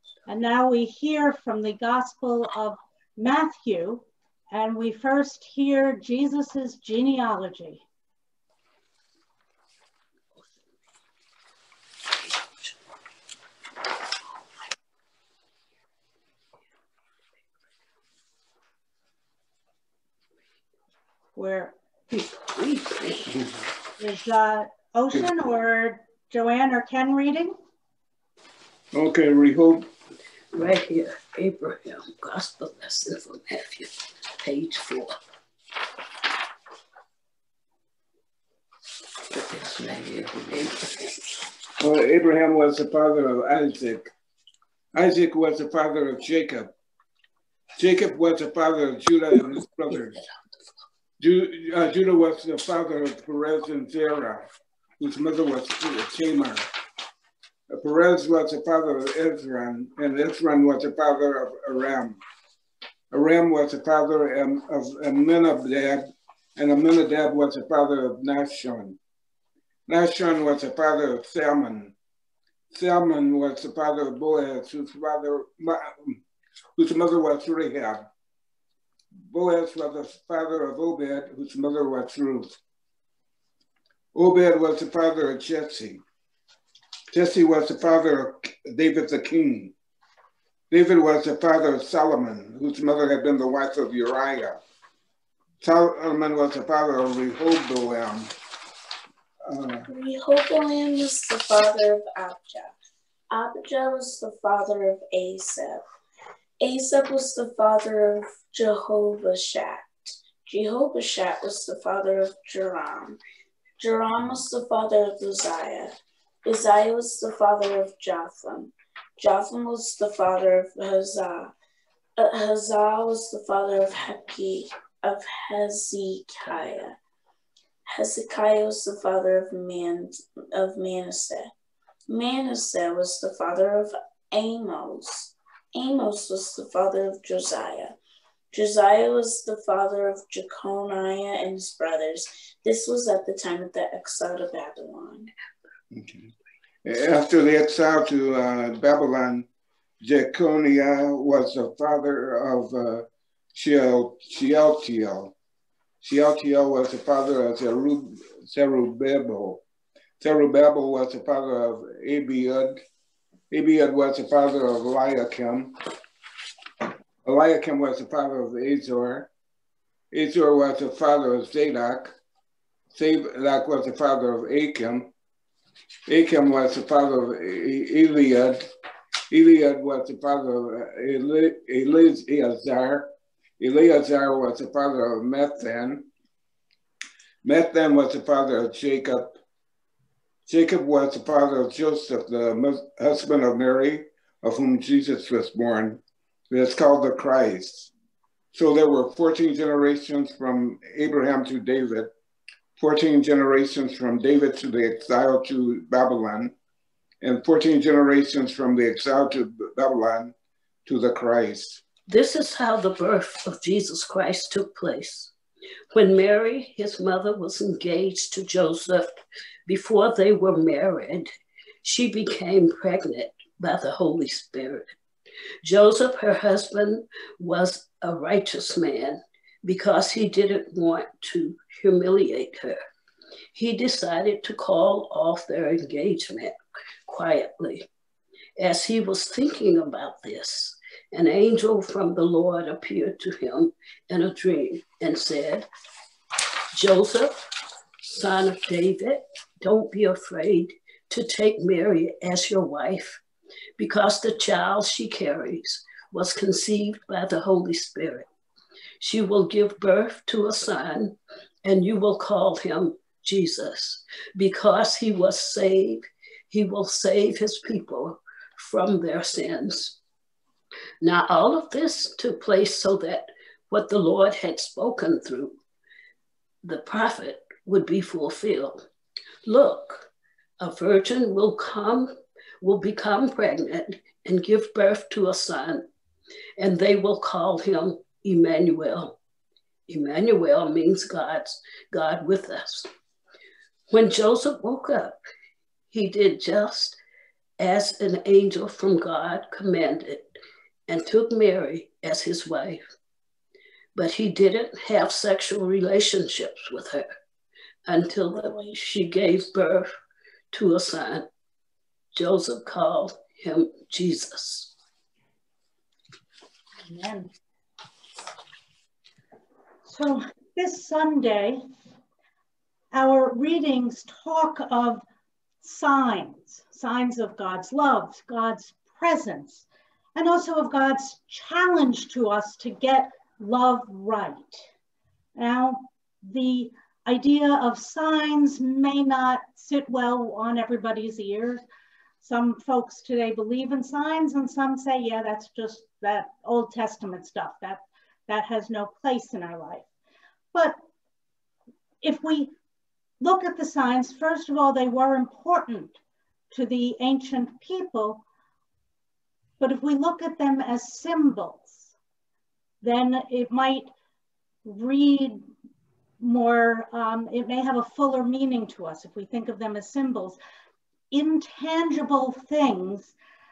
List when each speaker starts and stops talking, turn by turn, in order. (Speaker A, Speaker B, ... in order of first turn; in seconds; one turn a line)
Speaker A: 0.3-7.8
Speaker A: 21.4-21.7
Speaker B: 22.1-23.3
Speaker A: 24.0-27.5
Speaker C: 28.9-29.9
Speaker B: 30.5-33.9
Speaker B: 34.4-35.2
Speaker B: 39.3-41.1
Speaker C: 41.8-44.1
Speaker C: 44.9-46.7
Speaker C: 47.8-50.2
Speaker B: 49.9-50.3
Speaker C: 51.2-54.5
Speaker C: 55.0-56.7
Speaker C: 57.7-62.2
Speaker C: 63.1-69.0
Speaker C: 69.9-71.9
Speaker C: 72.7-76.2
Speaker C: 76.8-78.1
Speaker C: 79.3-82.6
Speaker C: 84.1-86.0
Speaker C: 87.1-89.7
Speaker C: 90.7-94.6
Speaker C: 95.6-98.3
Speaker C: 99.5-99.9
Speaker D: 99.9-102.7
Speaker D: 103.3-105.8
Speaker D: 106.6-113.2
Speaker D: 113.8-115.9
Speaker D: 116.4-121.5
Speaker D: 122.2-127.0
Speaker D: 127.8-131.5
Speaker D: 132.1-137.9
Speaker D: 138.5-145.3
Speaker C: 145.9-146.3
Speaker C: 146.8-149.5
Speaker C: 150.0-155.3
Speaker C: 156.0-159.6
Speaker C: 160.2-162.8
Speaker C: 163.5-165.8
Speaker C: 167.2-169.3
Speaker C: 170.1-172.1
Speaker C: 172.9-175.1
Speaker C: 176.1-178.7
Speaker C: 179.3-186.1
Speaker C: 187.4-189.4
Speaker C: 190.5-197.9
Speaker C: 198.5-202.1
Speaker C: 202.8-206.5
Speaker C: 207.2-210.3
Speaker C: 210.8-211.8
Speaker B: 212.1-215.3
Speaker B: 215.9-219.1
Speaker B: 219.7-221.3
Speaker B: 221.8-224.9
Speaker B: 225.6-232.8
Speaker B: 233.5-236.6
Speaker B: 237.1-237.9
Speaker B: 238.6-245.7
Speaker B: 246.7-247.4
Speaker B: 248.0-253.2
Speaker B: 253.8-258.3
Speaker B: 259.0-270.0
Speaker B: 271.0-275.6
Speaker B: 276.6-278.8
Speaker B: 279.4-280.1
Speaker B: 280.6-285.9
Speaker B: 286.6-289.2
Speaker B: 289.9-292.9
Speaker B: 293.9-295.2
Speaker B: 295.9-297.0
Speaker B: 297.6-300.3
Speaker B: 300.9-302.8
Speaker B: 303.9-307.1
Speaker B: 307.9-309.9
Speaker D: 308.4-308.7
Speaker B: 310.5-311.3
Speaker B: 312.1-314.7
Speaker A: 316.8-317.3
Speaker A: 319.8-321.6
Speaker A: 322.9-325.0
Speaker A: 325.6-334.7
Speaker A: 335.4-341.6
Speaker A: 342.2-349.9
Speaker A: 352.0-352.5
Speaker A: 353.2-356.0
Speaker A: 356.5-358.2
Speaker A: 359.6-361.9
Speaker A: 362.8-363.9
Speaker A: 364.6-365.4
Speaker A: 366.2-370.4
Speaker A: 371.1-373.1